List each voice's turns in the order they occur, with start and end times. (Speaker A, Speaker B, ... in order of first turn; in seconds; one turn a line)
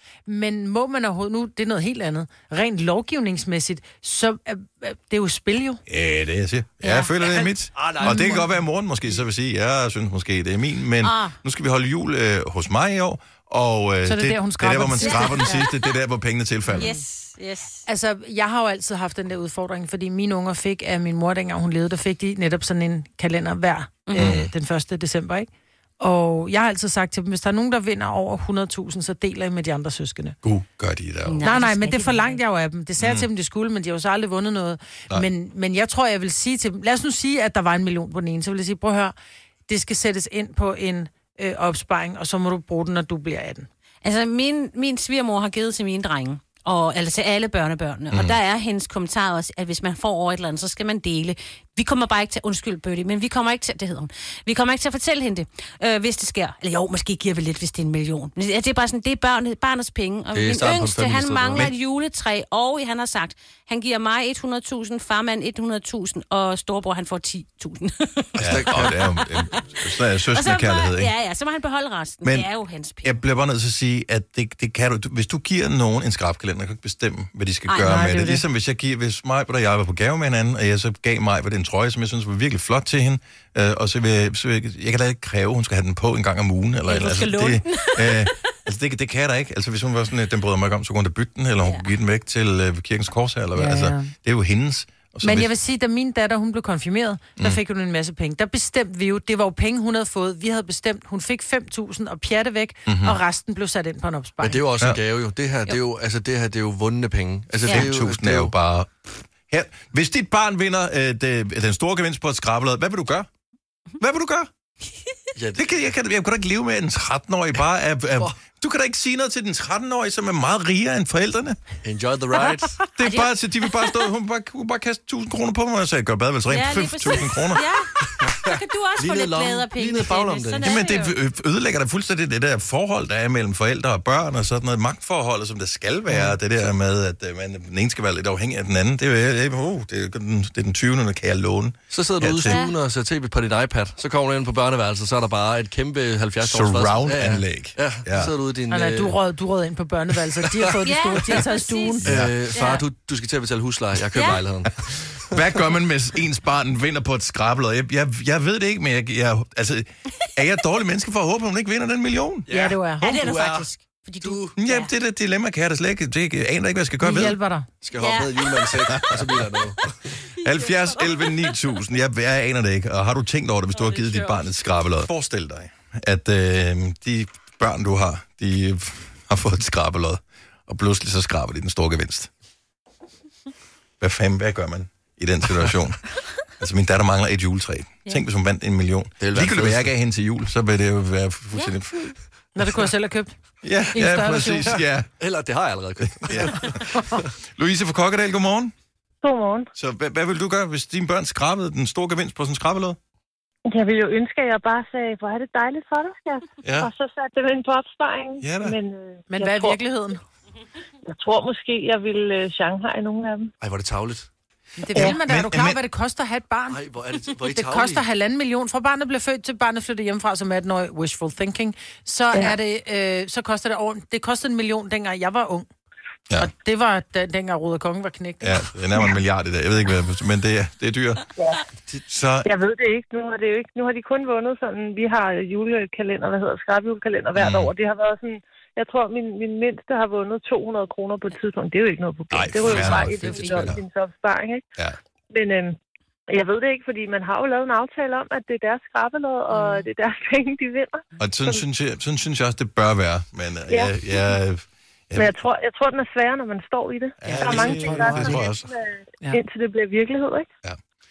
Speaker A: 0.3-5.8
Speaker B: 5.9-16.9
Speaker C: 6.8-7.1
Speaker D: 7.8-8.2
Speaker A: 8.0-8.5
Speaker C: 11.0-11.4
Speaker A: 14.1-15.7
Speaker C: 15.0-15.9
Speaker A: 16.7-17.0
Speaker C: 16.7-17.9
Speaker A: 17.9-25.5
Speaker C: 24.1-24.4
Speaker B: 24.2-24.5
Speaker A: 26.0-30.4
Speaker B: 30.4-31.4
Speaker C: 31.3-32.4
Speaker A: 31.4-39.1
Speaker B: 33.0-33.3
Speaker A: 39.7-43.7
Speaker C: 44.0-73.2
Speaker D: 60.3-61.7
Speaker D: 68.4-69.0
Speaker B: 68.4-71.1
Speaker B: 73.0-95.5
Speaker A: 77.8-78.4
Speaker C: 86.9-88.5
Speaker C: 91.6-91.9
Speaker A: 93.5-94.1
Speaker A: 95.2-104.6
Speaker B: 102.9-103.2
Speaker D: 104.4-108.5
Speaker C: 107.6-107.9
Speaker B: 107.7-113.3
Speaker B: 114.0-114.5
Speaker D: 115.4-115.8
Speaker B: 115.6-121.6
Speaker D: 121.8-122.8
Speaker B: 123.0-127.7
Speaker C: 123.0-123.9
Speaker C: 126.5-131.2
Speaker D: 128.2-130.8
Speaker B: 130.6-142.6
Speaker D: 141.9-149.2
Speaker C: 142.4-142.8
Speaker B: 146.4-148.3
Speaker A: 148.7-152.1
Speaker C: 150.8-152.0
Speaker B: 152.0-152.4
Speaker D: 152.0-155.3
Speaker C: 152.5-152.8
Speaker C: 154.1-154.4
Speaker B: 155.2-162.5
Speaker D: 162.5-163.7
Speaker A: 162.5-163.2
Speaker C: 163.0-164.9
Speaker B: 164.6-167.4
Speaker A: 167.0-167.7
Speaker D: 167.8-170.2
Speaker C: 168.0-168.8
Speaker B: 168.9-169.3
Speaker C: 170.3-171.6
Speaker B: 170.4-182.3
Speaker C: 173.7-174.5
Speaker B: 184.0-192.1
Speaker D: 189.2-189.9
Speaker A: 192.6-193.3
Speaker B: 193.6-195.1
Speaker A: 193.9-194.8
Speaker D: 195.2-197.3
Speaker B: 196.2-196.9
Speaker B: 197.6-198.7
Speaker E: 199.2-199.7
Speaker B: 199.8-203.0
Speaker E: 203.7-209.8
Speaker B: 206.6-206.9
Speaker B: 208.4-208.8
Speaker A: 209.3-210.2
Speaker E: 211.1-213.5
Speaker D: 213.6-214.3
Speaker A: 214.8-216.8
Speaker B: 214.9-215.8
Speaker D: 216.7-218.1
Speaker A: 217.5-225.7
Speaker A: 226.4-228.7
Speaker B: 228.4-231.2
Speaker B: 232.1-232.5
Speaker E: 232.4-244.7
Speaker B: 237.3-237.7
Speaker B: 242.3-243.8
Speaker D: 242.7-243.6
Speaker A: 243.2-243.6
Speaker E: 245.3-245.8
Speaker E: 246.3-251.6
Speaker A: 249.5-249.9
Speaker B: 251.2-255.3
Speaker E: 253.7-254.0
Speaker E: 255.2-260.5
Speaker B: 257.2-258.7
Speaker A: 257.2-258.4